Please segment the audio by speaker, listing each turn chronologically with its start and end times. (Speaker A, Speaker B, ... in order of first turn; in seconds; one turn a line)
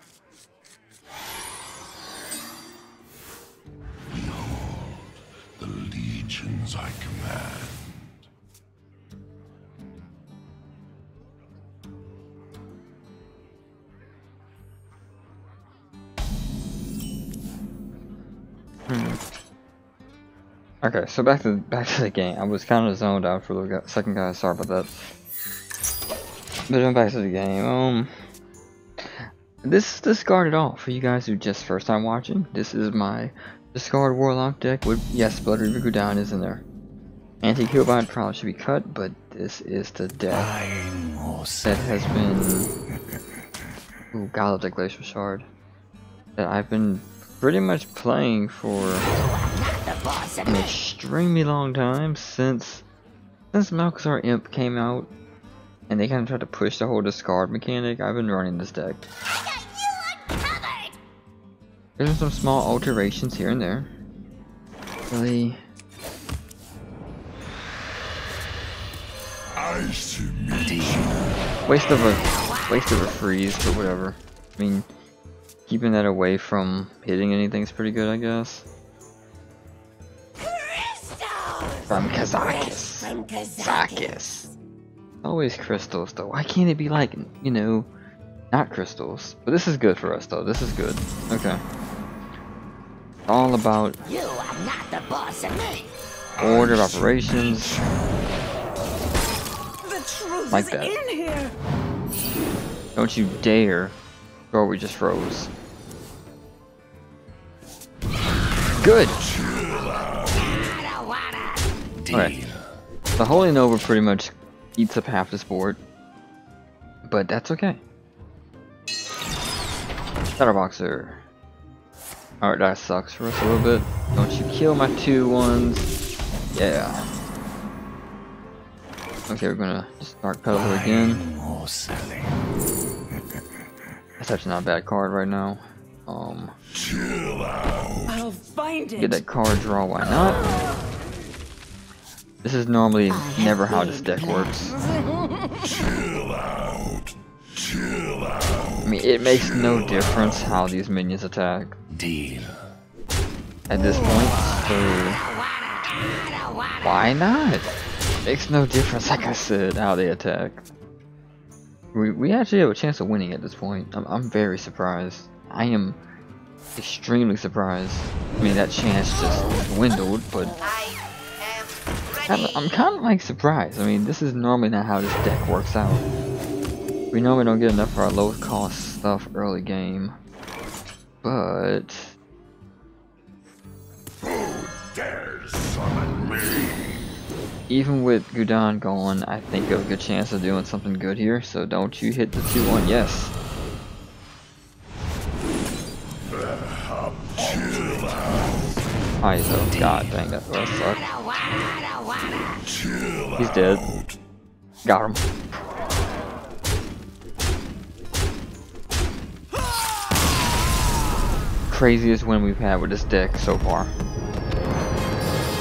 Speaker A: 4.1-8.3
Speaker B: 18.9-19.2
Speaker B: 20.8-24.9
Speaker B: 26.7-28.1
Speaker B: 29.0-36.6
Speaker B: 37.4-40.5
Speaker A: 40.3-42.0
Speaker B: 41.6-42.7
Speaker B: 44.1-45.5
Speaker B: 46.4-49.1
Speaker C: 49.1-50.7
Speaker B: 50.5-52.9
Speaker B: 53.5-55.1
Speaker B: 55.9-59.0
Speaker C: 59.4-61.0
Speaker B: 62.0-63.9
Speaker B: 65.1-65.6
Speaker A: 69.6-71.2
Speaker B: 71.7-74.9
Speaker B: 75.7-78.7
Speaker C: 80.6-84.2
Speaker B: 81.9-84.5
Speaker B: 85.2-87.9
Speaker B: 88.5-91.6
Speaker B: 93.3-94.0
Speaker C: 94.1-95.9
Speaker B: 96.4-97.8
Speaker D: 99.8-101.5
Speaker B: 100.5-101.0
Speaker B: 103.0-104.0
Speaker B: 104.5-105.5
Speaker B: 108.8-109.2
Speaker A: 109.5-110.5
Speaker C: 110.6-111.5
Speaker A: 112.0-112.6
Speaker B: 112.1-112.4
Speaker B: 113.2-115.8
Speaker B: 117.0-117.8
Speaker B: 120.4-121.2
Speaker B: 122.4-125.9
Speaker B: 126.5-127.0
Speaker B: 129.3-131.2
Speaker A: 130.5-132.3
Speaker B: 134.2-136.6
Speaker A: 137.0-137.3
Speaker D: 138.1-139.2
Speaker B: 139.0-140.4
Speaker B: 142.4-144.8
Speaker A: 146.2-147.0
Speaker B: 148.8-151.8
Speaker A: 151.9-152.6
Speaker B: 153.7-155.2
Speaker B: 156.8-160.7
Speaker B: 161.9-166.0
Speaker B: 166.8-170.6
Speaker B: 172.2-176.1
Speaker B: 177.1-180.2
Speaker B: 181.2-182.2
Speaker A: 184.2-186.8
Speaker B: 187.7-193.3
Speaker A: 197.2-198.2
Speaker B: 199.2-201.1
Speaker C: 201.7-202.2
Speaker B: 203.4-203.9
Speaker B: 204.8-205.2
Speaker B: 211.7-213.9